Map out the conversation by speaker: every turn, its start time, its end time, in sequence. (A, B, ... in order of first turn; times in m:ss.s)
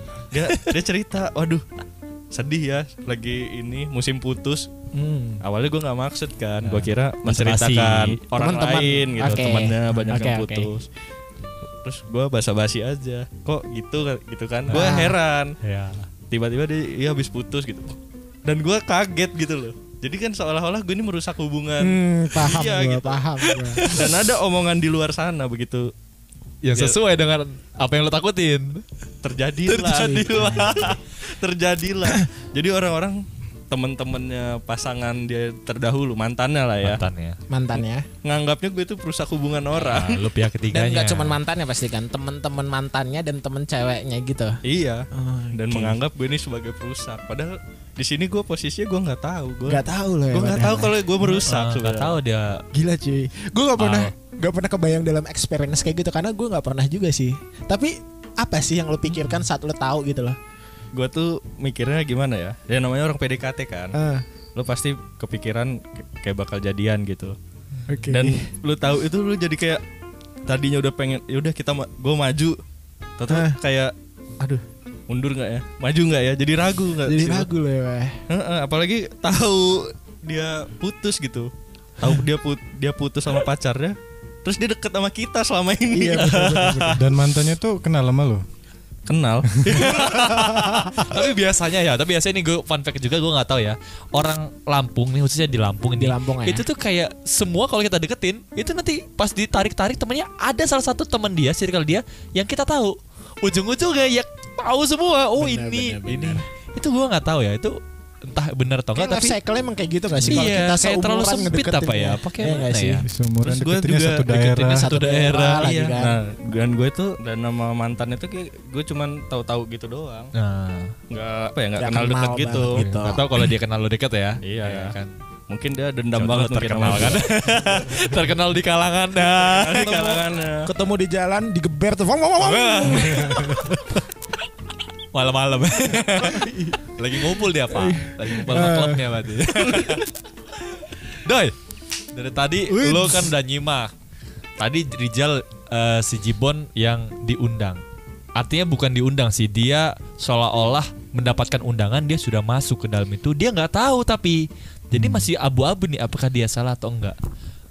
0:00.3-0:01.6 A
0:00.4-0:00.8 B
0:02.3-0:04.7 A
0:04.9-0:05.4 C
0:05.4-0:10.9 A
0:06.6-0:08.2 B
0:08.3-0:10.7 C
0:11.8-0:15.6 A
0:14.7-0:15.0 B
0:14.7-0:15.2 C
0:15.6-0:16.1 B
0:16.3-0:25.9 A
0:21.8-0:24.0 C
0:23.6-0:24.1 B
0:26.6-0:28.8 B
0:29.2-0:37.0 A
0:29.7-0:30.9 B
0:29.8-0:31.0 C
0:36.8-0:37.4 B
0:37.5-0:38.1 C
0:37.7-0:40.2 A
0:39.8-0:41.4 B
0:40.7-0:44.6 C
0:44.6-0:52.2 A
0:45.1-0:46.0 C
0:49.7-0:51.4 C
0:51.2-0:52.6 B
0:52.7-1:00.4 C
0:53.8-0:54.1 B
0:59.1-0:59.4 B
1:00.9-1:03.9 A
1:03.9-1:04.2 C
1:04.5-1:07.3 A
1:07.8-1:08.1 B
1:07.9-1:08.5 C
1:08.1-1:09.8 A
1:10.5-1:12.6 A
1:13.2-1:17.5 A
1:13.3-1:13.6 C
1:17.0-1:18.2 C
1:18.3-1:27.0 A
1:25.9-1:27.0 C
1:27.0-1:28.4 D
1:29.1-1:30.2 A
1:29.6-1:29.9 D
1:29.6-1:49.3 B
1:30.5-1:31.0 C
1:36.0-1:36.6 C
1:45.4-1:46.4 C
1:48.9-1:53.0 C
1:50.2-1:53.0 B
1:53.0-1:54.9 D
1:53.4-2:00.3 A
1:54.7-1:56.2 C
1:54.9-1:55.6 B
2:00.3-2:00.9 B
2:01.1-2:02.9 A
2:01.8-2:03.2 C
2:02.7-2:05.1 B
2:04.4-2:04.9 A
2:05.5-2:07.2 A
2:06.1-2:10.2 B
2:09.4-2:10.7 A
2:10.6-2:13.8 C
2:12.4-2:14.0 B
2:15.1-2:20.1 B
2:16.1-2:19.9 C
2:21.1-2:21.5 B
2:22.1-2:23.9 B
2:22.9-2:23.3 C
2:24.6-2:27.8 B
2:28.4-2:37.2 B
2:34.9-2:35.3 D